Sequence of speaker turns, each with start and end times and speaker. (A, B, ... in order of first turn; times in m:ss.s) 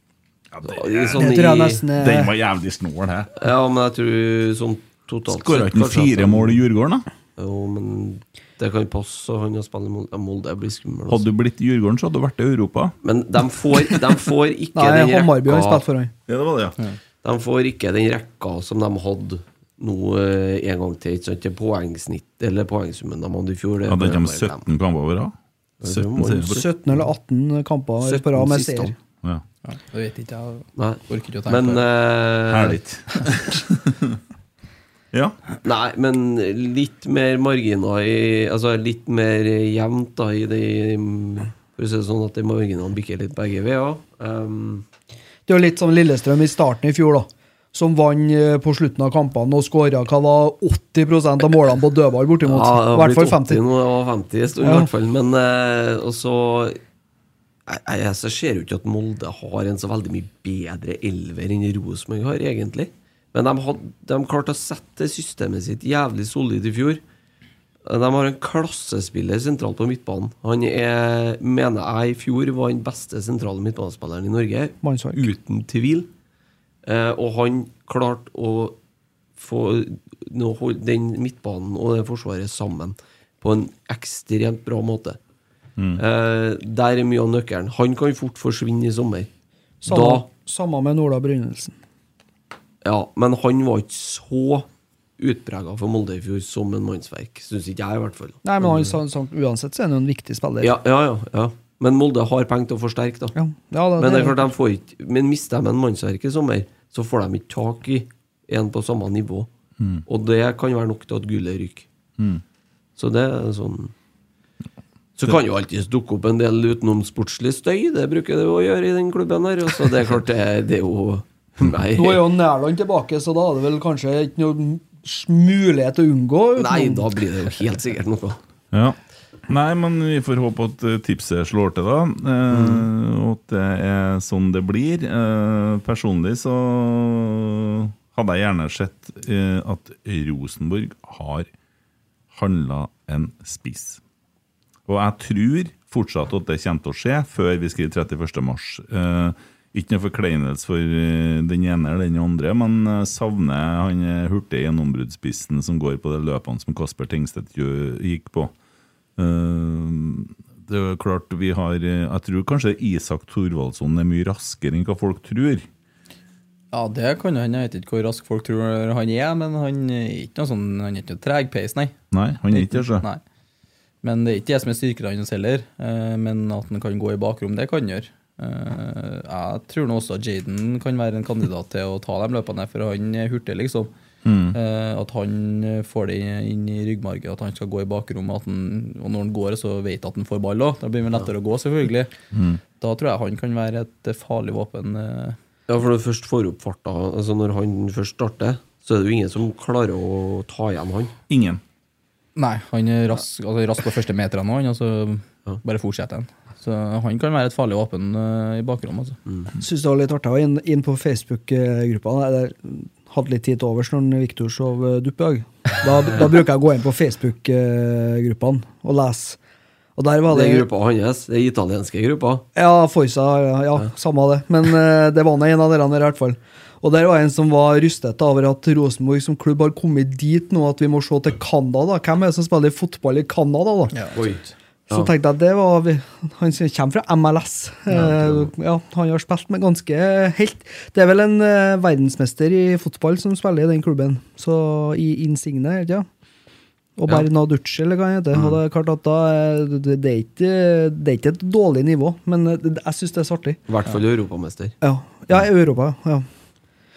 0:00.5-0:01.2 A
0:00.6-0:01.9 B
0:01.2-0:02.3 C
0:02.0-0:03.3 A
0:03.4-0:06.6 B
0:05.3-0:07.0 A
0:07.4-0:11.2 B
0:11.1-0:13.0 A
0:13.0-0:15.8 B
0:14.8-0:16.1 C
0:16.3-0:16.8 A
0:17.2-0:24.6 B
0:23.9-0:26.6 A
0:25.8-0:26.6 B
0:26.4-0:29.0 C
0:28.0-0:28.9 B
0:29.6-0:31.8 D
0:30.8-0:32.8 B
0:32.5-0:34.2 A
0:35.6-0:44.8 B
0:45.5-0:53.6 C
0:52.4-0:56.8 B
0:54.6-0:54.9 C
0:57.7-1:07.0 B
1:07.9-1:16.1 B
1:14.8-1:15.2 C
1:16.8-1:18.8 B
1:19.4-1:25.2 B
1:26.0-1:29.3 B
1:29.8-1:31.7 C
1:29.9-1:30.3 B
1:32.8-1:34.7 B
1:35.2-1:39.0 B
1:38.4-1:40.7 C
1:40.6-1:43.4 B
1:43.4-1:44.4 C
1:44.0-1:49.5 B
1:49.8-1:50.0 A
1:50.1-1:51.9 B
1:53.0-1:53.9 B
1:55.2-2:02.2 B
2:02.0-2:07.1 C
2:06.6-2:08.4 B
2:08.7-2:09.0 A
2:09.5-2:21.5 A
2:12.5-2:12.9 B
2:22.3-2:24.0 A
2:24.9-2:38.5 A
2:39.2-2:45.7 A
2:46.7-2:52.0 D
2:52.1-2:53.0 A
2:52.5-2:53.2 D
2:54.0-3:03.9 D
3:04.2-3:04.6 A
3:04.5-3:12.1 D
3:12.3-3:12.6 A
3:12.8-3:15.4 D
3:15.7-3:21.1 B
3:21.3-3:21.6 A
3:22.4-3:29.2 D
3:29.6-3:39.4 C
3:40.0-3:40.7 C
3:40.3-3:42.5 B
3:42.6-3:53.9 C
3:53.9-3:54.2 D
3:54.2-3:55.1 B
3:54.9-4:06.1 C
3:57.9-3:58.5 B
4:07.0-4:13.6 C
4:08.3-4:08.6 B
4:13.7-4:14.8 B
4:14.8-4:16.3 C